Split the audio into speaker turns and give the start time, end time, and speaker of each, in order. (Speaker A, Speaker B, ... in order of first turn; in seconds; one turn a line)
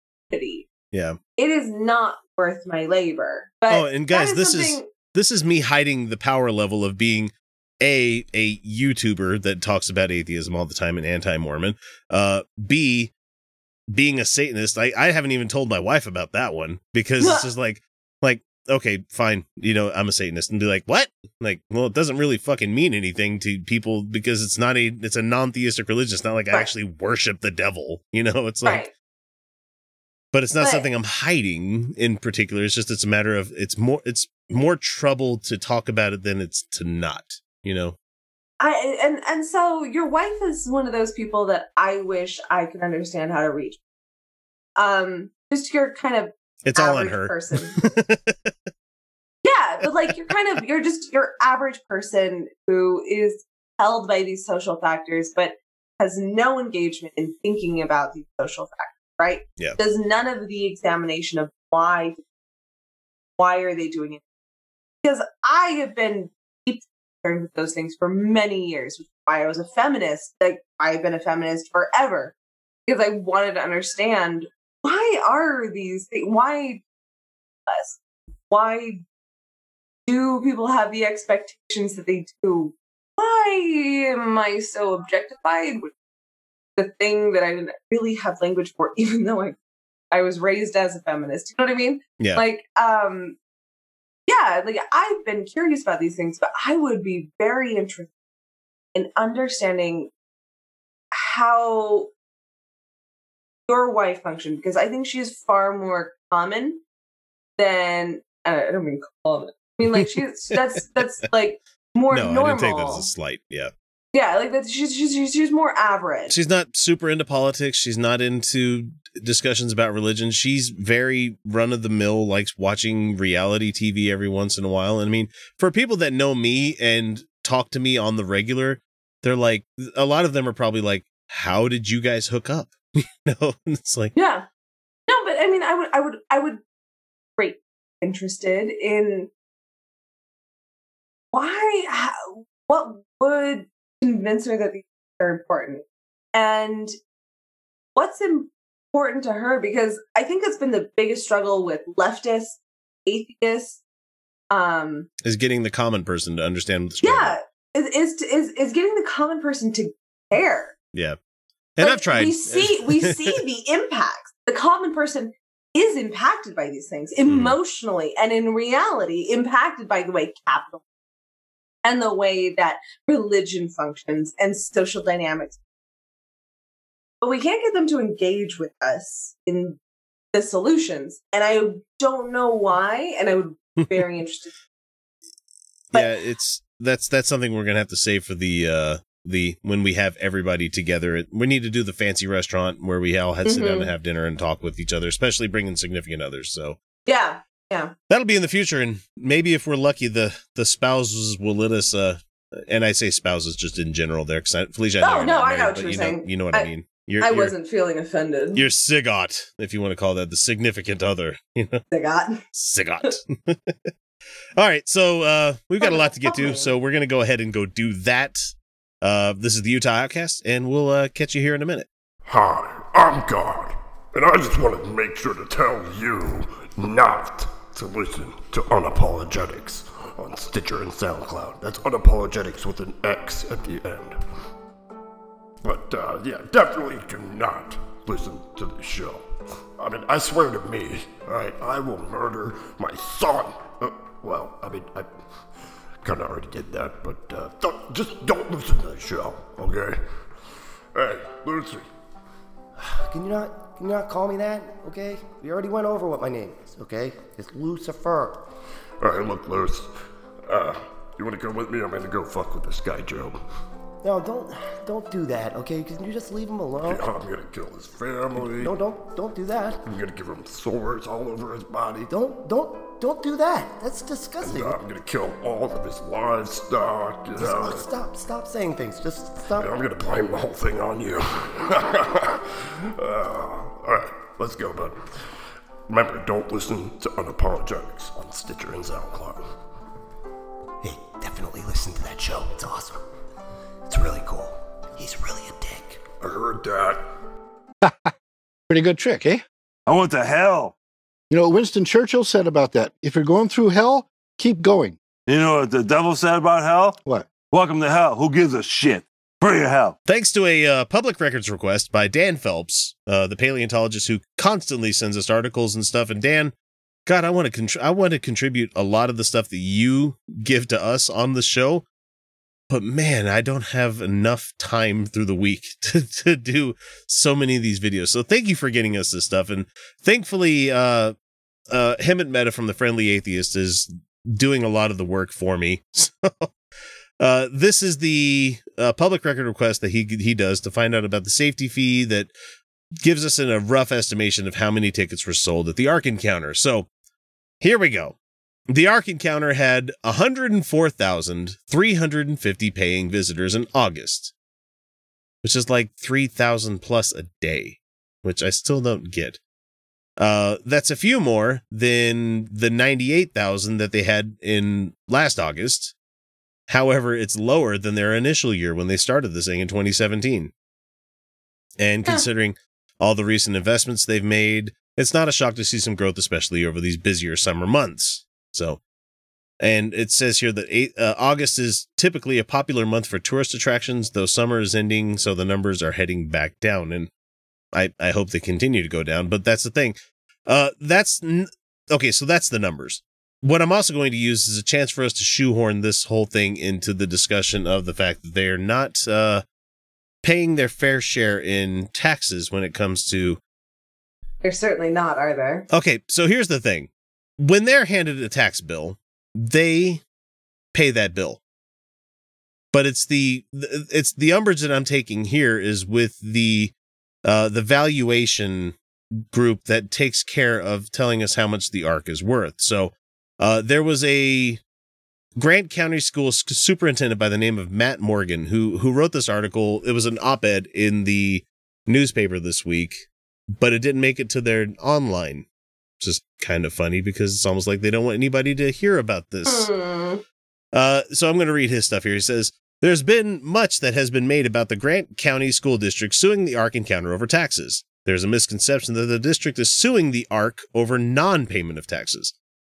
Speaker A: 0.3-0.7
Speaker B: 0.9-1.2
Speaker A: 1.4-4.9
Speaker B: 3.7-13.1
Speaker B: 13.9-28.9
Speaker A: 17.2-17.5
Speaker A: 28.6-28.9
Speaker B: 30.3-38.0
Speaker A: 30.6-30.9
Speaker A: 38.6-43.8
Speaker A: 44.8-47.8
Speaker B: 46.6-48.5
Speaker A: 49.4-62.2
Speaker A: 63.4-64.2
Speaker A: 65.0-72.3
Speaker A: 72.9-76.8
Speaker A: 77.7-78.0
Speaker A: 78.5-79.0
Speaker A: 80.1-85.9
Speaker A: 86.8-89.6
Speaker A: 90.1-93.4
Speaker B: 92.2-92.4
Speaker A: 94.3-98.1
Speaker A: 98.9-100.1
Speaker A: 101.1-102.1
Speaker A: 103.7-106.8
Speaker A: 107.6-113.1
Speaker B: 109.9-110.5
Speaker B: 112.1-113.7
Speaker A: 114.1-116.3
Speaker B: 116.3-134.1
Speaker A: 134.2-134.5
Speaker A: 135.1-136.6
Speaker A: 137.4-139.3
Speaker A: 141.3-146.9
Speaker A: 147.9-153.8
Speaker A: 154.5-155.1
Speaker B: 155.2-157.4
Speaker A: 157.0-160.7
Speaker B: 161.8-163.4
Speaker A: 161.8-170.8
Speaker B: 167.2-167.6
Speaker A: 171.8-175.6
Speaker A: 177.2-179.8
Speaker A: 180.3-184.5
Speaker B: 183.8-184.1
Speaker B: 185.9-196.8
Speaker A: 193.4-193.9
Speaker A: 197.1-197.9
Speaker B: 198.1-207.5
Speaker A: 205.0-206.7
Speaker A: 207.2-208.7
Speaker B: 208.5-211.8
Speaker A: 211.9-212.4
Speaker B: 212.5-213.9
Speaker B: 214.6-221.9
Speaker A: 215.8-216.7
Speaker C: 222.3-234.2
Speaker C: 235.6-239.2
Speaker C: 239.8-245.1
Speaker C: 246.0-250.0
Speaker C: 250.9-251.9
Speaker D: 252.8-258.5
Speaker C: 259.0-259.9
Speaker C: 260.5-263.4
Speaker D: 264.0-267.1
Speaker C: 266.8-268.8
Speaker D: 268.4-269.8
Speaker C: 269.9-272.1
Speaker D: 272.1-274.8
Speaker C: 274.4-277.9
Speaker D: 277.4-279.7
Speaker C: 279.5-285.1
Speaker C: 285.9-289.5
Speaker D: 290.8-293.0
Speaker D: 293.9-296.0
Speaker C: 296.2-297.0
Speaker E: 297.8-298.1
Speaker E: 298.7-299.4
Speaker F: 299.9-300.7
Speaker E: 301.3-305.0
Speaker F: 305.3-310.0
Speaker B: 310.1-316.5
Speaker B: 317.1-321.9
Speaker B: 322.7-331.1
Speaker B: 331.7-336.5
Speaker B: 337.2-342.3
Speaker B: 343.0-346.9
Speaker B: 347.6-348.2
Speaker B: 348.7-354.3
Speaker B: 355.4-359.4
Speaker B: 360.2-365.9
Speaker B: 366.7-370.5
Speaker B: 371.8-378.8
Speaker B: 379.6-387.1
Speaker B: 387.7-399.4
Speaker B: 400.2-403.4
Speaker A: 404.4-405.7
Speaker B: 405.7-410.0
Speaker B: 410.7-411.4
Speaker B: 412.7-424.6
Speaker B: 425.4-435.5
Speaker B: 436.0-439.7
Speaker A: 439.5-440.2
Speaker B: 440.7-452.3